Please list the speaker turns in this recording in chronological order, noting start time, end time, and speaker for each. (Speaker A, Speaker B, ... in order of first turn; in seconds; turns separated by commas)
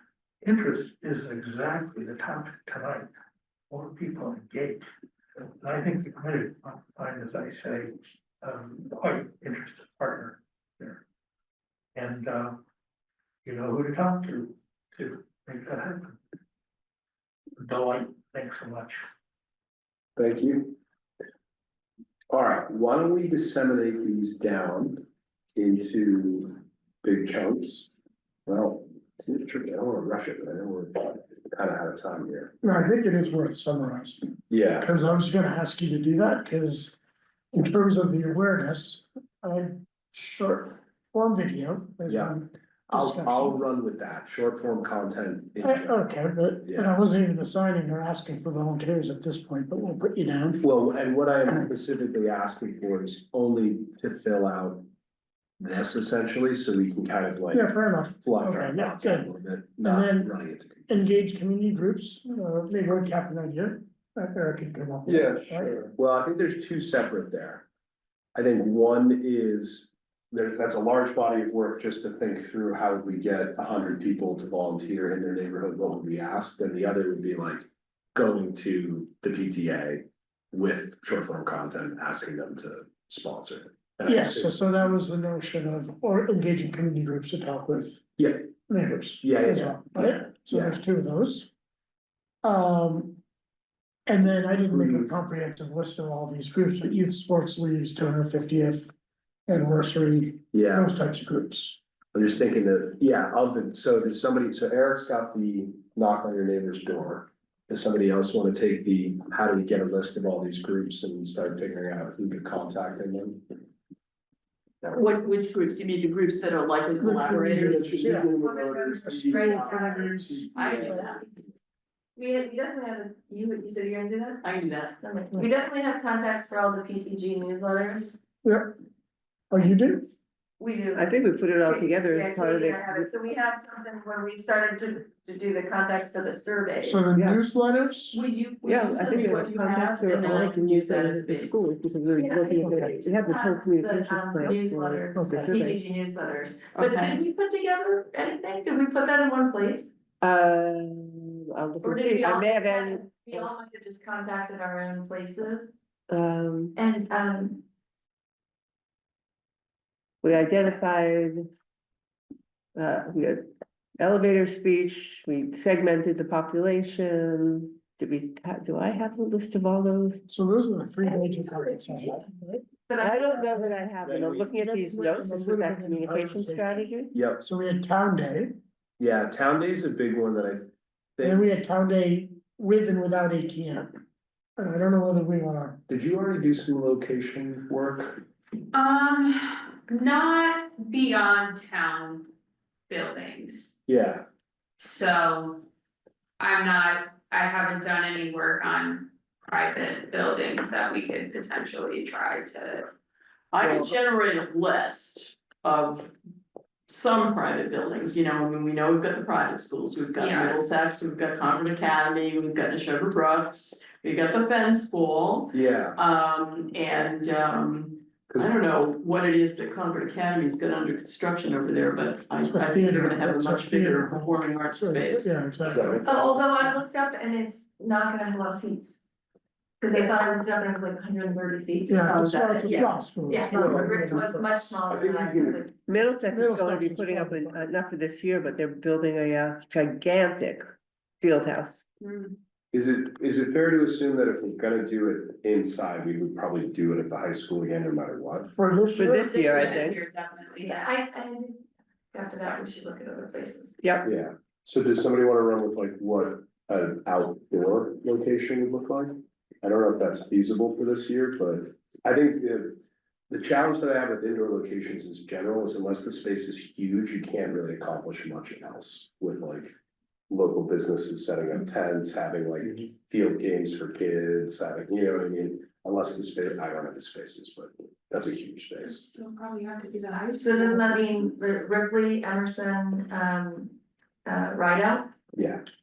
Speaker A: 0.4-3.1, Speaker A: 3.7-4.8, Speaker A: 5.4-11.0, Speaker A: 11.9-12.6, Speaker A: 13.4-16.2, Speaker A: 17.6-19.0, Speaker B: 20.2-20.8, Speaker B: 22.3-25.0, Speaker B: 25.6-27.9, Speaker B: 28.5-32.5, Speaker C: 32.6-37.0, Speaker B: 34.5-34.9, Speaker C: 37.5-43.6, Speaker B: 42.1-42.4, Speaker B: 42.9-46.0, Speaker C: 45.6-50.6, Speaker B: 46.6-47.0, Speaker B: 50.6-54.8, Speaker B: 55.6-60.9, Speaker C: 57.5-60.3, Speaker C: 60.9-65.9, Speaker B: 65.1-67.7, Speaker B: 68.3-84.5, Speaker C: 84.1-88.0, Speaker B: 88.2-88.5, Speaker C: 88.7-91.5, Speaker B: 89.2-90.8, Speaker C: 92.4-93.2, Speaker C: 94.1-98.9, Speaker B: 94.7-95.1, Speaker C: 99.5-101.8, Speaker B: 100.5-100.9, Speaker B: 102.1-113.4, Speaker D: 114.9-118.2, Speaker C: 117.0-118.3, Speaker B: 117.3-121.0, Speaker E: 118.2-120.3, Speaker C: 119.0-121.1, Speaker D: 120.5-121.2, Speaker E: 121.0-121.4, Speaker E: 122.2-124.4, Speaker D: 124.4-125.0, Speaker E: 125.0-128.2, Speaker C: 128.4-128.7, Speaker C: 129.5-130.1, Speaker E: 130.6-137.0, Speaker F: 130.9-133.3, Speaker C: 136.8-138.2, Speaker F: 137.1-137.4, Speaker D: 138.1-141.6, Speaker F: 138.6-145.8, Speaker E: 142.2-149.9, Speaker C: 142.6-143.0, Speaker C: 145.2-145.5, Speaker D: 146.7-147.2, Speaker F: 150.2-153.5, Speaker E: 151.8-155.7, Speaker F: 156.1-156.8, Speaker E: 156.8-157.6, Speaker F: 160.2-161.5, Speaker F: 162.8-170.2, Speaker C: 170.3-172.7, Speaker E: 171.0-172.3, Speaker E: 172.8-173.5, Speaker F: 173.0-177.2, Speaker C: 173.4-173.9, Speaker B: 174.1-174.5, Speaker C: 174.5-178.6, Speaker B: 177.1-177.5, Speaker B: 179.0-181.5, Speaker C: 181.2-183.9, Speaker C: 184.6-185.8, Speaker B: 185.9-188.2, Speaker G: 188.7-192.3, Speaker G: 192.9-193.7, Speaker B: 193.9-194.2, Speaker G: 194.8-195.6, Speaker G: 196.4-202.9, Speaker D: 203.5-206.1, Speaker D: 206.9-225.3, Speaker G: 210.2-210.6, Speaker B: 215.5-216.0, Speaker C: 222.4-226.1, Speaker B: 225.7-226.5, Speaker E: 226.0-229.0, Speaker E: 229.8-235.8, Speaker C: 231.9-234.8, Speaker B: 233.5-233.9, Speaker B: 234.9-235.6, Speaker F: 235.9-240.6, Speaker C: 236.3-237.8, Speaker F: 241.2-241.8, Speaker B: 242.7-248.5, Speaker C: 248.5-249.3, Speaker F: 248.9-250.0, Speaker G: 249.2-250.9, Speaker E: 250.6-253.7, Speaker F: 253.8-254.1, Speaker B: 254.0-269.7, Speaker B: 270.3-279.1, Speaker G: 279.0-280.8, Speaker E: 280.3-283.7, Speaker E: 284.2-285.1, Speaker B: 285.3-285.6